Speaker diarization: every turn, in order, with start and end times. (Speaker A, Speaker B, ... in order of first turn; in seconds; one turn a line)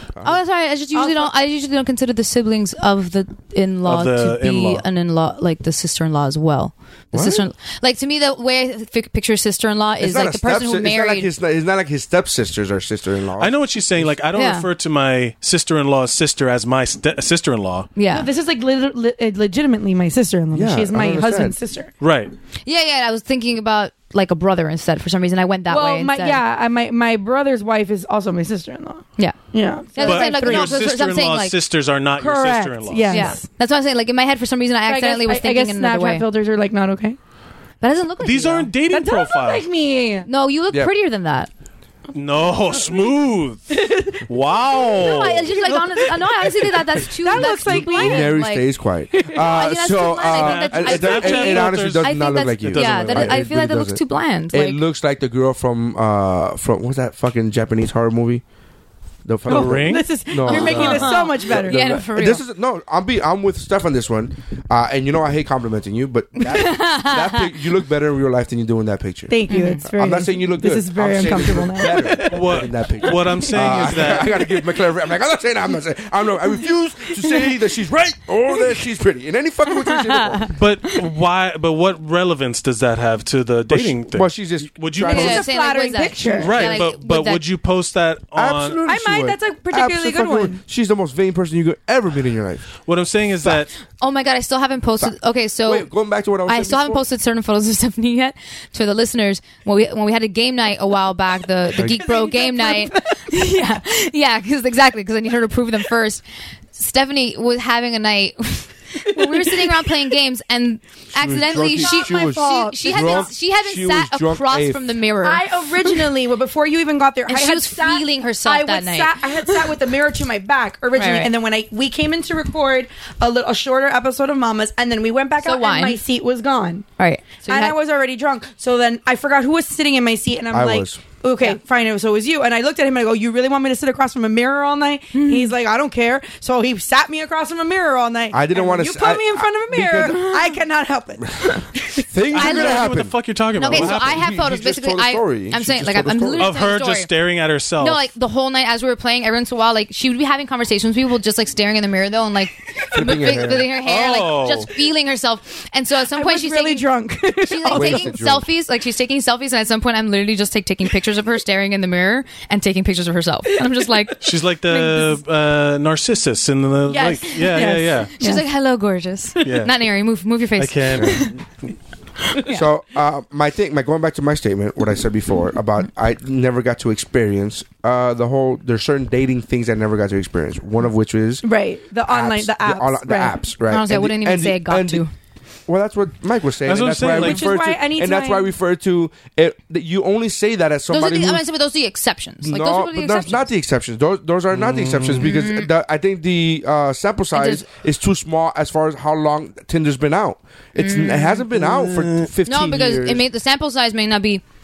Speaker A: 0.2-11.3
Speaker B: 0.9-1.3
Speaker C: 3.8-4.8
Speaker D: 7.1-7.5
Speaker D: 10.0-14.1
Speaker C: 13.4-17.9
Speaker A: 14.3-14.7
Speaker A: 17.9-18.3
Speaker B: 18.1-21.9
Speaker D: 20.5-21.6
Speaker C: 22.0-22.3
Speaker A: 22.6-26.4
Speaker B: 25.7-30.8
Speaker A: 29.9-31.6
Speaker C: 30.0-33.3
Speaker B: 32.2-33.4
Speaker A: 33.1-36.2
Speaker B: 34.9-37.2
Speaker A: 37.8-38.7
Speaker C: 38.2-39.7
Speaker B: 38.9-40.3
Speaker A: 40.2-41.5
Speaker C: 42.1-45.9
Speaker B: 43.7-44.2
Speaker B: 44.9-48.4
Speaker A: 45.0-48.7
Speaker D: 47.4-58.4
Speaker B: 49.2-49.5
Speaker A: 49.3-54.8
Speaker C: 50.2-52.1
Speaker C: 52.6-53.4
Speaker D: 59.2-80.5
Speaker C: 59.5-60.1
Speaker B: 59.5-62.0
Speaker A: 60.4-62.4
Speaker A: 66.4-67.5
Speaker B: 69.3-74.4
Speaker A: 69.5-69.8
Speaker C: 72.3-74.4
Speaker B: 77.2-77.5
Speaker C: 80.5-85.4
Speaker D: 83.7-85.4
Speaker B: 85.0-86.8
Speaker A: 85.0-87.4
Speaker C: 86.3-88.8
Speaker D: 88.3-92.7
Speaker B: 88.8-90.6
Speaker C: 92.9-93.7
Speaker A: 93.9-95.9
Speaker D: 95.0-97.0
Speaker A: 96.5-106.2
Speaker B: 101.8-103.2
Speaker A: 106.7-115.9
Speaker B: 109.1-109.9
Speaker D: 111.1-114.9
Speaker B: 111.8-113.3
Speaker B: 115.2-126.9
Speaker A: 117.3-119.6
Speaker A: 120.9-121.3
Speaker A: 125.4-126.0
Speaker A: 127.0-127.8
Speaker B: 127.4-142.1
Speaker D: 130.5-131.0
Speaker A: 135.1-135.5
Speaker D: 138.3-140.3
Speaker D: 142.0-146.5
Speaker C: 142.3-144.2
Speaker A: 142.3-142.9
Speaker A: 143.6-147.1
Speaker C: 146.4-148.0
Speaker A: 147.8-164.2
Speaker D: 152.9-153.7
Speaker C: 153.8-154.7
Speaker B: 156.1-158.2
Speaker D: 157.7-158.5
Speaker C: 164.2-168.1
Speaker B: 166.9-168.4
Speaker A: 168.2-171.3
Speaker C: 169.4-169.7
Speaker C: 170.6-171.3
Speaker D: 171.0-171.3
Speaker A: 172.3-172.7
Speaker D: 172.4-181.4
Speaker B: 181.4-183.4
Speaker D: 182.1-185.0
Speaker A: 183.7-185.1
Speaker D: 185.7-191.4
Speaker C: 186.6-187.5
Speaker B: 187.1-188.5
Speaker A: 190.9-193.4
Speaker D: 192.4-203.2
Speaker C: 194.5-195.3
Speaker A: 195.2-195.7
Speaker A: 197.3-197.6
Speaker A: 200.8-201.4
Speaker C: 201.5-202.3
Speaker A: 202.4-204.4